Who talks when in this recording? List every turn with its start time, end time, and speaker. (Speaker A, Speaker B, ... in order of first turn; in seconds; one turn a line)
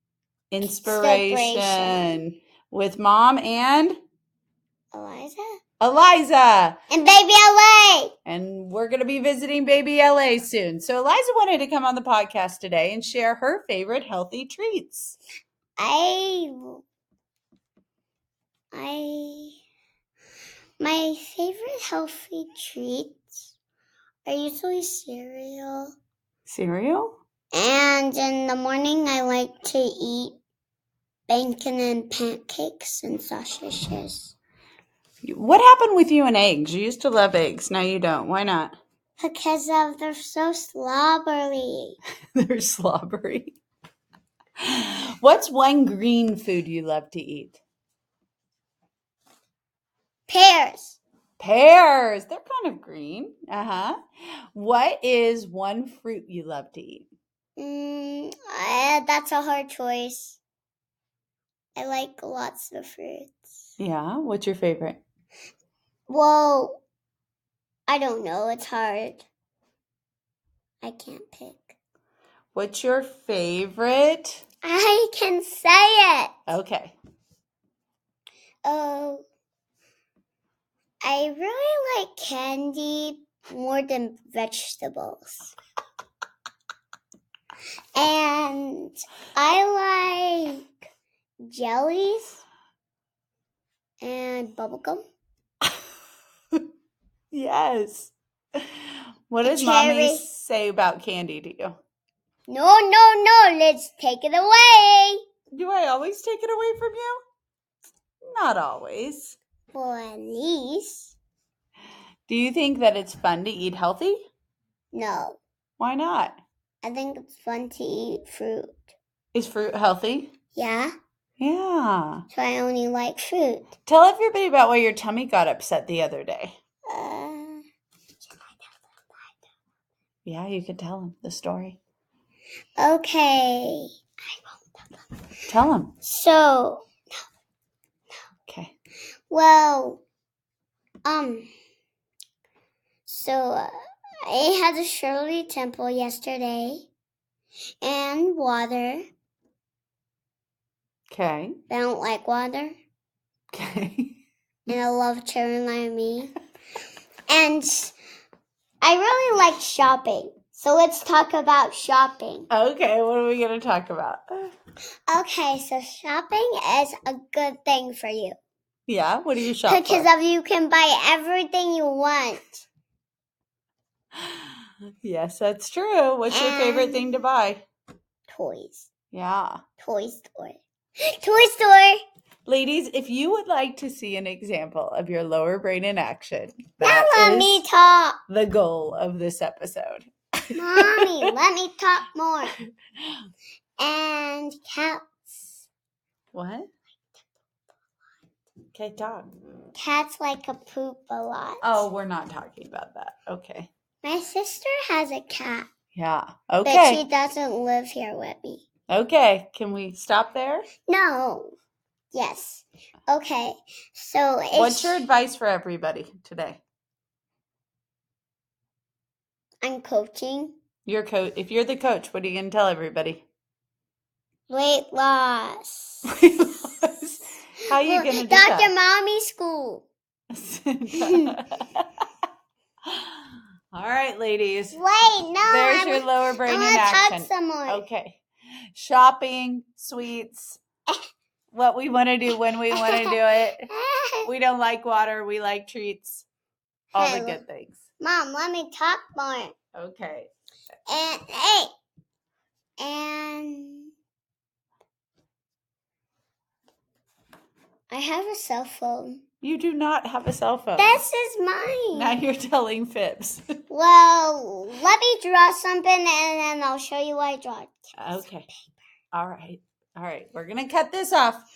Speaker A: 0.5-4.0
Speaker B: 0.6-2.2
Speaker B: 4.9-5.6
Speaker A: 5.8-6.8
Speaker B: 6.9-8.1
Speaker A: 8.3-15.2
Speaker B: 15.8-16.8
Speaker B: 18.7-19.6
Speaker B: 20.8-23.5
Speaker B: 24.2-25.9
Speaker A: 26.5-27.2
Speaker B: 27.5-30.4
Speaker B: 31.3-34.4
Speaker A: 35.2-38.8
Speaker B: 39.2-42.0
Speaker A: 42.4-43.6
Speaker A: 44.6-47.6
Speaker B: 50.3-51.0
Speaker A: 51.4-54.0
Speaker A: 54.5-57.1
Speaker B: 57.6-60.4
Speaker B: 61.8-63.5
Speaker A: 63.8-65.0
Speaker B: 66.1-66.8
Speaker B: 67.9-69.2
Speaker B: 70.8-71.8
Speaker A: 72.5-74.4
Speaker B: 74.6-76.3
Speaker A: 76.5-77.0
Speaker B: 78.7-79.2
Speaker B: 81.0-85.5
Speaker B: 88.0-90.7
Speaker B: 91.5-92.4
Speaker B: 94.0-95.0
Speaker A: 97.3-101.8
Speaker B: 99.4-100.2
Speaker B: 102.5-105.2
Speaker A: 105.5-107.2
Speaker A: 108.2-109.4
Speaker B: 109.7-111.2
Speaker A: 112.3-114.2
Speaker B: 114.9-115.4
Speaker A: 115.8-116.4
Speaker B: 116.8-118.9
Speaker A: 119.3-120.3
Speaker B: 120.5-120.9
Speaker A: 121.4-122.2
Speaker B: 122.3-123.7
Speaker A: 123.9-126.6
Speaker B: 126.9-127.6
Speaker B: 128.4-129.3
Speaker A: 130.2-131.8
Speaker B: 132.8-135.1
Speaker A: 135.5-135.9
Speaker B: 136.0-136.9
Speaker A: 138.5-138.7
Speaker B: 139.3-140.0
Speaker B: 141.1-141.5
Speaker B: 143.1-143.7
Speaker B: 144.3-146.9
Speaker B: 147.8-149.1
Speaker A: 151.1-151.6
Speaker B: 151.7-152.8
Speaker A: 153.5-154.2
Speaker B: 154.7-156.3
Speaker B: 157.3-157.9
Speaker B: 158.8-162.5
Speaker A: 162.5-164.5
Speaker B: 165.1-168.4
Speaker A: 168.9-170.1
Speaker B: 169.7-172.6
Speaker A: 174.2-174.5
Speaker A: 175.0-177.6
Speaker B: 176.3-177.1
Speaker B: 178.3-178.9
Speaker A: 179.1-179.6
Speaker B: 179.8-180.6
Speaker B: 181.1-182.0
Speaker A: 182.5-187.6
Speaker B: 186.8-188.2
Speaker A: 188.3-190.1
Speaker B: 190.5-192.6
Speaker A: 190.8-191.3
Speaker B: 193.8-195.6
Speaker A: 196.3-196.7
Speaker A: 198.7-199.3
Speaker B: 199.7-201.8
Speaker A: 201.6-203.7
Speaker B: 204.0-205.7
Speaker A: 205.9-207.0
Speaker B: 206.6-208.6
Speaker A: 208.9-210.7
Speaker B: 210.9-211.5
Speaker B: 212.1-215.0
Speaker A: 214.5-216.6
Speaker B: 219.6-220.5
Speaker A: 220.9-223.2
Speaker B: 224.5-226.1
Speaker A: 226.1-228.7
Speaker B: 227.8-229.9
Speaker A: 230.3-231.9
Speaker B: 231.0-231.3
Speaker A: 232.9-233.2
Speaker A: 233.7-234.8
Speaker B: 234.7-237.8
Speaker A: 235.5-238.2
Speaker A: 238.7-240.6
Speaker A: 241.5-243.7
Speaker B: 242.7-243.2
Speaker B: 243.7-244.3
Speaker A: 244.2-246.3
Speaker A: 246.9-247.8
Speaker B: 247.0-247.4
Speaker B: 248.0-249.5
Speaker A: 249.8-250.3
Speaker B: 250.9-251.7
Speaker B: 252.8-253.9
Speaker B: 257.9-259.2
Speaker A: 259.4-261.0
Speaker B: 260.8-262.2
Speaker A: 261.9-263.5
Speaker B: 263.7-268.8
Speaker A: 268.0-268.5
Speaker A: 269.1-271.4